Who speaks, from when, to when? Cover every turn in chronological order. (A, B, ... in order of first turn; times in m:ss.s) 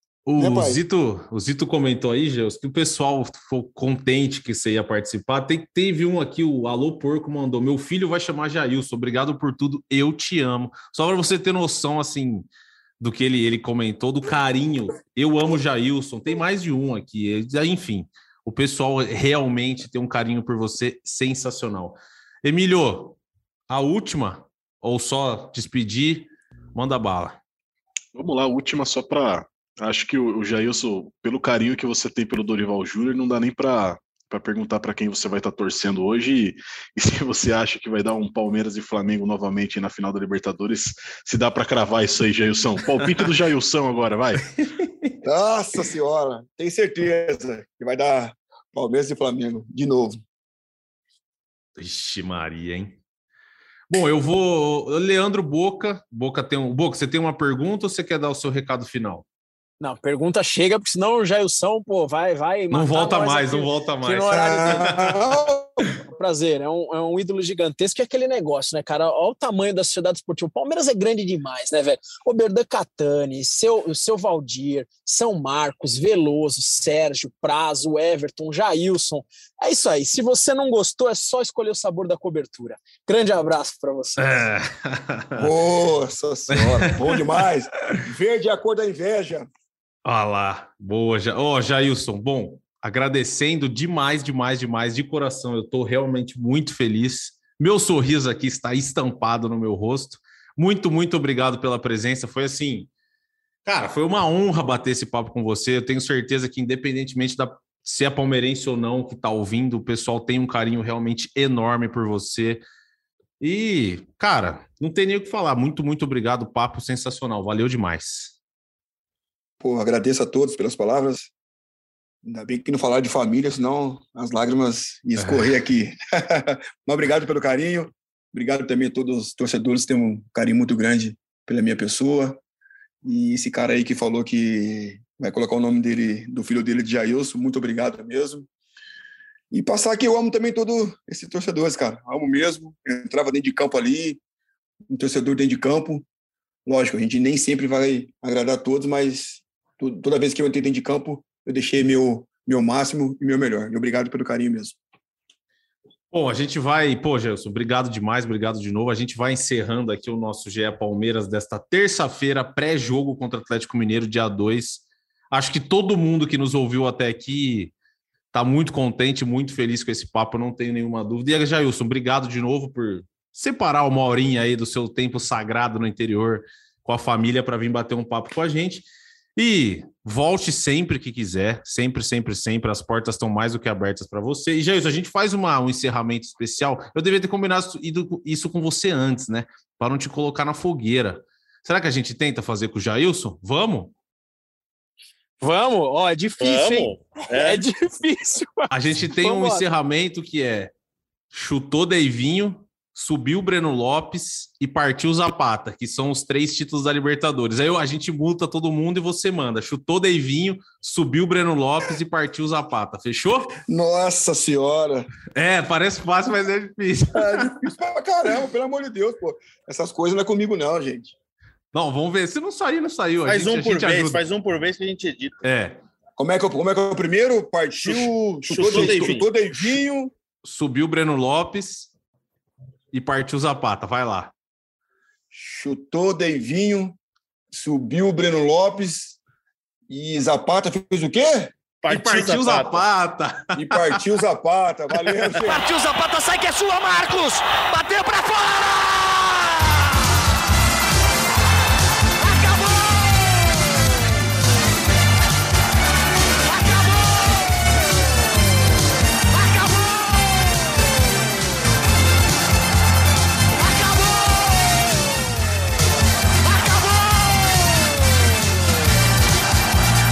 0:00.3-0:12.5 A
0:00.4-0:00.8 B
0:13.0-0:23.2 A
0:23.7-0:27.4 A
0:28.1-0:44.4 C
0:44.5-0:45.2 A
0:45.2-0:50.2 B
0:51.8-0:53.0 A
0:53.9-0:59.2 A
0:59.8-1:05.0 D
1:02.7-1:05.1 A
1:04.3-1:06.0 B
1:06.1-1:24.2 D
1:24.2-1:25.5 A
1:25.4-1:29.5 B
1:26.5-1:27.3 A
1:30.0-1:42.9 A
1:43.6-1:52.6 A
1:53.4-1:58.3 A
1:59.6-2:01.3 B
2:02.2-2:12.4 B
2:05.2-2:05.5 A
2:13.0-2:18.5 B
2:19.5-2:24.2 B
2:24.9-2:26.0 B
2:26.6-2:34.8 B
2:36.1-2:47.7 A
2:48.3-3:13.9 A
3:15.4-3:19.6 D
3:16.4-3:17.6 E
3:18.7-3:20.7 A
3:21.3-3:33.6 A
3:33.7-3:35.1 B
3:35.3-3:37.7 A
3:37.1-3:41.1 B
3:41.7-3:44.2 A
3:43.2-3:45.4 E
3:45.4-3:45.8 A
3:46.2-3:50.1 B
3:47.8-3:49.3 E
3:48.6-3:49.0 A
3:50.4-3:51.9 A
3:52.9-3:54.3 A
3:55.3-3:57.0 B
3:57.5-3:59.2 B
3:59.9-4:01.5 B
4:01.8-4:02.8 E
4:01.9-4:04.0 A
4:03.6-4:05.7 B
4:05.4-4:10.2 F
4:12.2-4:14.3 F
4:16.4-4:21.4 F
4:23.5-4:25.4 F
4:26.4-4:28.6 F